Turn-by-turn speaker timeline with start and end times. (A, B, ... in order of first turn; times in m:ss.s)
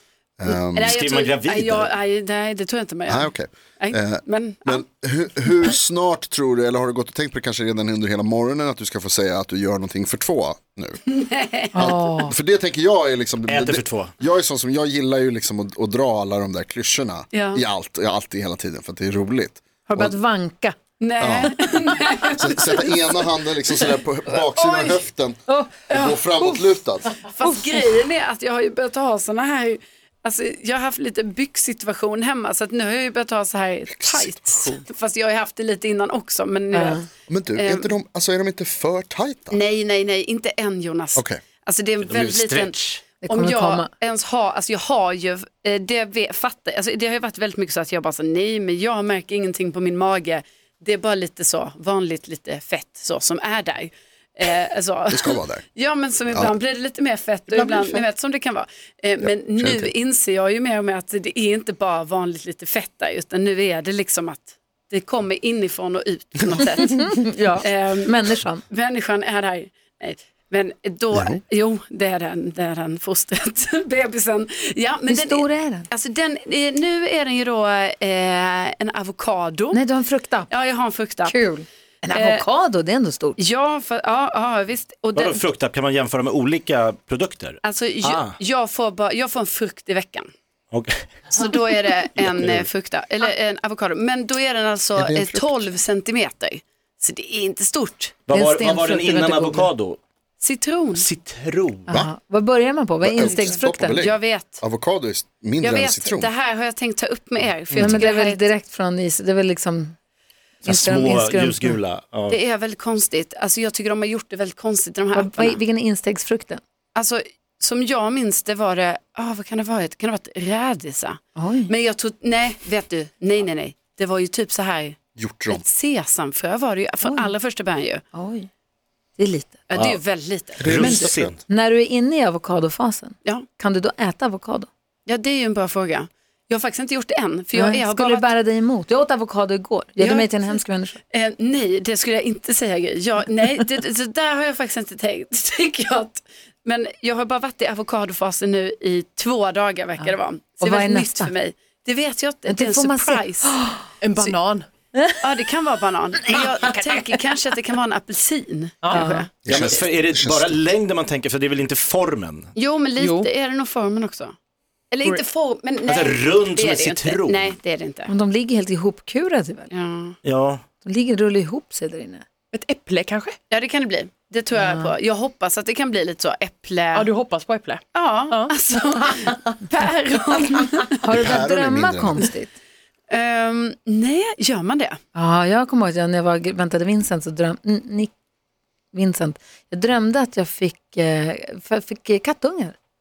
0:00.4-0:00.9 A
0:00.5-0:04.8 B
0:00.8-0:01.9 C
0:03.1-0:11.0 A
0:11.1-0:11.8 B
0:11.7-0:12.3 D
0:11.7-0:20.1 A
0:13.5-0:14.1 C
0:17.3-0:17.6 B
0:19.9-0:20.7 D
0:21.0-0:22.6 B
0:21.2-0:21.5 A
0:22.4-0:25.4 A
0:24.5-0:25.0 B
0:25.5-0:25.8 D
0:25.9-0:26.2 B
0:25.9-0:27.1 A
0:27.2-0:37.9 B
0:33.9-0:34.8 A
0:36.7-0:37.0 D
0:37.3-0:39.6 A
0:39.5-1:08.1 B
0:41.1-0:41.4 A
0:42.0-0:43.0 C
0:43.2-0:43.9 D
0:55.1-0:55.6 A
0:59.2-0:59.9 A
1:07.0-1:08.6 D
1:08.7-1:19.8 B
1:11.1-1:11.4 A
1:15.1-1:15.9 D
1:19.7-1:20.5 D
1:20.5-1:21.4 B
1:21.2-1:23.4 D
1:22.1-1:22.4 B
1:23.4-1:25.5 B
1:25.1-1:28.4 C
1:27.6-1:30.3 B
1:31.3-1:38.2 B
1:32.2-1:32.6 C
1:35.0-1:35.6 A
1:38.2-1:40.0 C
1:38.3-1:39.7 D
1:40.4-1:41.0 B
1:40.9-1:41.9 C
1:41.9-1:44.0 D
1:43.0-1:46.3 A
1:44.0-1:44.6 B
1:45.6-1:48.5 B
1:47.7-1:48.0 A
1:47.8-1:50.0 D
1:50.6-1:51.8 D
1:50.6-1:52.4 C
1:52.3-1:55.6 B
1:55.1-1:56.6 D
1:56.9-2:05.0 B
2:01.4-2:01.7 D
2:05.2-2:05.6 A
2:05.5-2:08.0 B
2:07.0-2:07.3 D
2:08.1-2:08.5 D
2:09.2-2:09.6 D
2:09.7-2:11.1 B
2:10.6-2:11.4 C
2:10.7-2:11.3 A
2:10.7-2:14.7 D
2:15.1-2:18.3 B
2:17.5-2:21.0 D
2:20.0-2:20.6 B
2:21.1-2:33.5 B
2:30.0-2:31.3 D
2:32.5-2:33.8 D
2:34.0-2:34.6 E
2:34.9-2:35.2 D
2:35.2-2:39.3 B
2:38.8-2:39.1 E
2:38.9-2:39.2 D
2:39.4-2:42.5 C
2:39.4-2:40.6 A
2:42.6-2:44.3 B
2:43.0-2:43.3 E
2:44.9-2:48.1 B
2:45.9-2:47.6 C
2:48.1-2:49.7 D
2:49.7-2:50.2 B
2:50.2-2:50.6 C
2:50.8-2:52.2 D
2:52.5-2:53.4 E
2:53.5-2:57.1 B
2:54.5-2:54.9 D
2:56.9-2:58.5 E
2:57.9-3:00.9 B
3:01.0-3:02.6 D
3:01.1-3:02.2 A
3:03.1-3:05.0 B
3:05.1-3:08.1 D
3:08.9-3:12.7 D